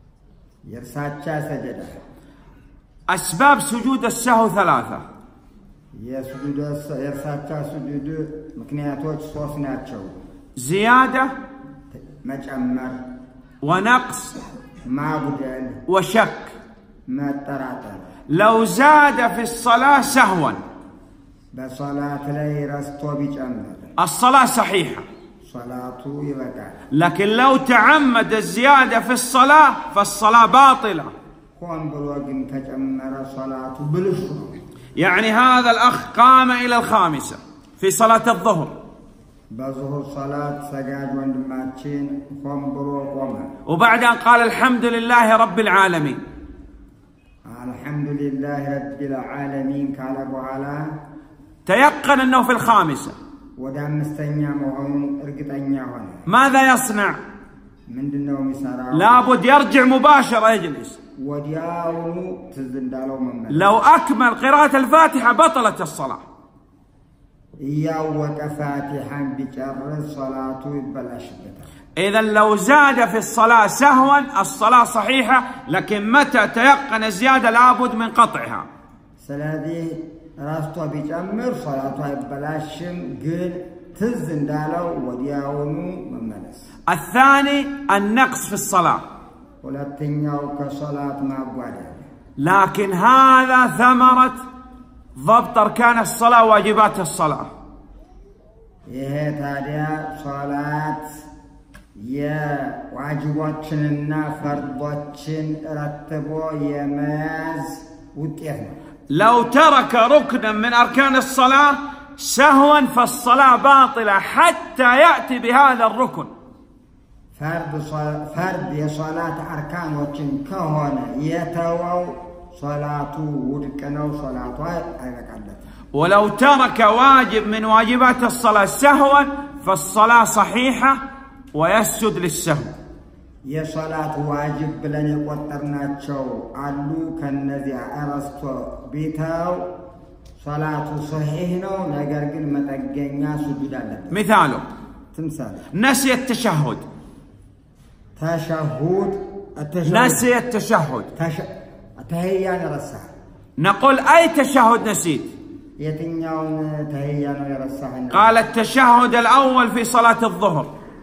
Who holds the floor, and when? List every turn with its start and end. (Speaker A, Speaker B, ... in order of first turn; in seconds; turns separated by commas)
Speaker A: 0.7-2.0, Speaker B: 3.1-5.0, Speaker A: 6.0-10.1, Speaker B: 10.6-11.3, Speaker A: 12.0-13.0, Speaker B: 13.6-14.4, Speaker A: 14.9-15.8, Speaker B: 15.9-16.5, Speaker A: 17.1-18.1, Speaker B: 18.3-20.6, Speaker A: 21.5-23.9, Speaker B: 24.0-25.1, Speaker A: 25.4-26.8, Speaker B: 26.9-31.1, Speaker A: 31.6-34.6, Speaker B: 35.0-38.7, Speaker A: 39.5-43.5, Speaker B: 43.6-46.2, Speaker A: 47.5-51.0, Speaker B: 51.6-53.1, Speaker A: 53.6-56.2, Speaker B: 56.2-57.2, Speaker A: 57.9-59.2, Speaker B: 58.9-61.0, Speaker A: 61.2-63.7, Speaker B: 63.5-66.2, Speaker A: 67.6-71.7, Speaker B: 72.0-78.7, Speaker A: 79.2-86.7, Speaker B: 86.9-89.0, Speaker A: 89.6-92.0, Speaker B: 92.4-94.4, Speaker B: 95.2-97.5, Speaker A: 98.9-101.2, Speaker A: 102.0-108.8, Speaker B: 109.1-116.3, Speaker A: 117.3-125.6, Speaker B: 125.9-131.0, Speaker B: 131.5-132.7, Speaker A: 133.5-139.7, Speaker A: 140.4-144.2, Speaker B: 144.1-144.6, Speaker A: 145.1-145.7, Speaker B: 145.7-146.8, Speaker A: 148.2-150.3, Speaker B: 149.8-151.1, Speaker A: 151.2-153.1, Speaker B: 153.6-155.3, Speaker A: 155.8-158.4, Speaker B: 158.1-160.7